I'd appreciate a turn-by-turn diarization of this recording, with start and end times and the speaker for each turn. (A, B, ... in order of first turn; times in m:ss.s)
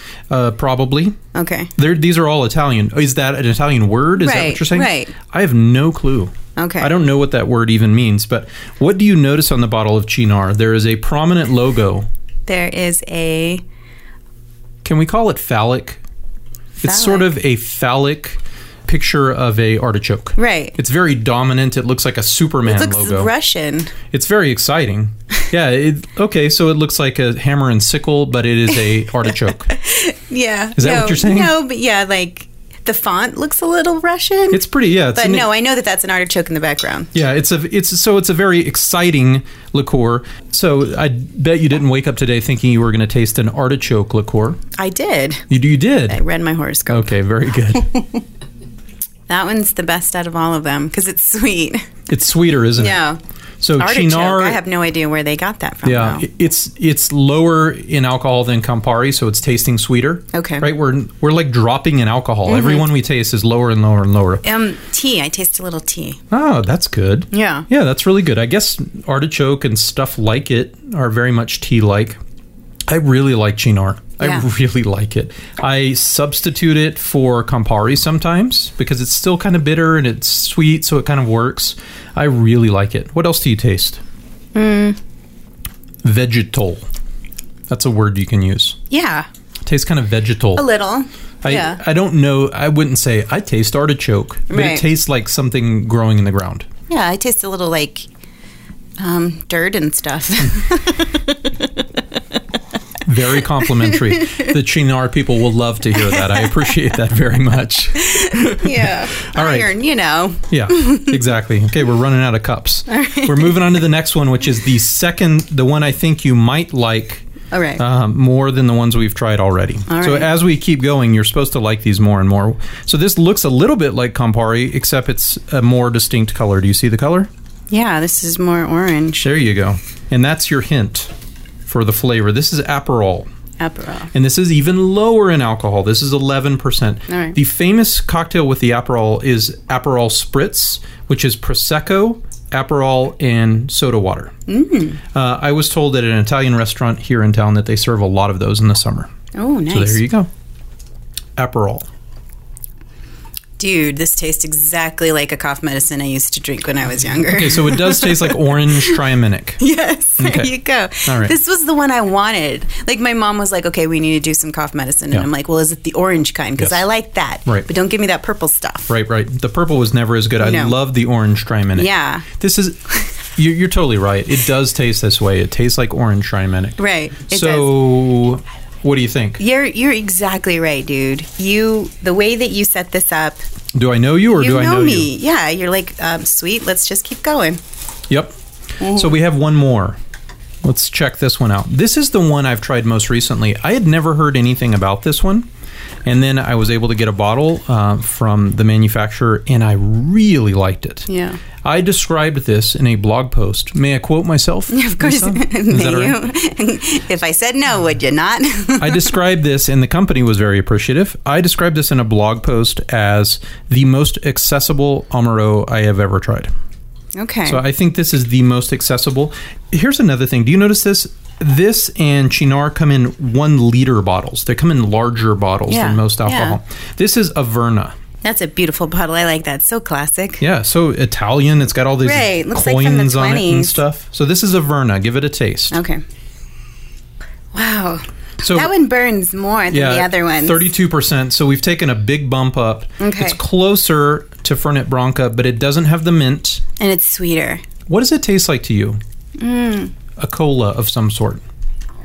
0:00.3-0:01.2 A
0:01.3-0:01.7 B
0:01.8-0:12.1 A
0:04.2-0:05.1 B
0:06.6-0:06.9 B
0:12.5-0:13.6 B
0:14.8-0:16.0 A
0:16.8-0:23.3 A
0:16.8-0:17.3 B
0:20.4-0:20.8 B
0:22.6-0:23.9 B
0:24.1-0:29.7 A
0:29.7-0:34.6 B
0:30.8-0:31.5 A
0:34.5-0:35.5 A
0:35.1-0:37.1 B
0:37.1-0:44.6 A
0:44.8-0:45.5 B
0:45.5-0:46.2 A
0:46.1-0:47.1 B
0:46.9-0:47.9 A
0:47.9-0:48.2 B
0:49.3-0:51.9 B
0:52.1-0:53.0 A
0:52.8-0:53.2 B
0:53.6-0:54.6 A
0:53.8-0:56.2 B
0:55.8-1:04.4 A
1:00.3-1:00.7 B
1:02.5-1:02.8 B
1:04.4-1:06.2 B
1:06.3-1:12.2 A
1:07.3-1:07.6 B
1:12.9-1:24.0 A
1:14.2-1:14.5 B
1:24.5-1:25.0 B
1:26.0-1:26.8 A
1:27.7-1:28.8 A
1:28.9-1:29.3 B
1:29.6-1:30.6 A
1:30.6-1:31.8 B
1:31.4-1:36.7 A
1:34.5-1:34.8 B
1:36.9-1:38.1 B
1:39.0-1:41.6 B
1:43.0-1:49.7 A
1:43.6-1:44.5 B
1:46.0-1:46.5 B
1:48.0-1:51.2 B
1:50.5-1:57.3 A
1:52.9-1:53.6 B
1:57.5-1:57.8 B
1:57.8-2:07.3 A
1:59.9-2:00.3 B
2:07.7-2:09.2 B
2:09.2-2:11.1 A
2:11.6-2:13.3 A
2:13.6-2:14.1 B
2:14.1-2:24.3 A
2:17.1-2:17.4 B
2:24.5-2:25.0 B
2:25.1-2:29.1 A
2:29.3-2:30.0 B
2:29.7-2:30.3 A
2:31.4-2:31.9 A
2:33.6-2:39.0 B
2:37.3-2:39.6 A
2:39.6-2:48.9 B
2:40.2-2:40.5 A
2:41.0-2:41.3 A
2:46.6-2:46.8 A
2:48.9-2:59.4 A
2:50.4-2:50.8 B
2:51.8-2:52.3 B
2:56.8-2:57.7 B
2:59.4-3:03.4 B
3:03.7-3:05.1 A
3:04.3-3:07.6 B
3:08.8-3:09.1 B
3:08.8-3:10.0 A
3:10.6-3:15.5 A
3:16.0-3:21.1 A
3:21.1-3:21.4 B
3:21.6-3:26.2 A
3:24.7-3:29.1 B
3:28.8-3:36.5 A
3:37.1-3:37.6 B
3:37.4-3:47.9 A
3:45.7-3:46.6 B
3:48.2-3:50.4 B
3:50.4-3:55.8 A
3:52.0-3:53.8 B
3:55.7-3:56.0 B
3:57.5-4:00.7 B
3:58.4-3:58.7 A
3:59.7-4:06.6 A
4:03.0-4:03.4 B
4:06.8-4:07.6 B
4:07.9-4:09.0 A
4:09.4-4:09.9 B
4:10.2-4:11.4 A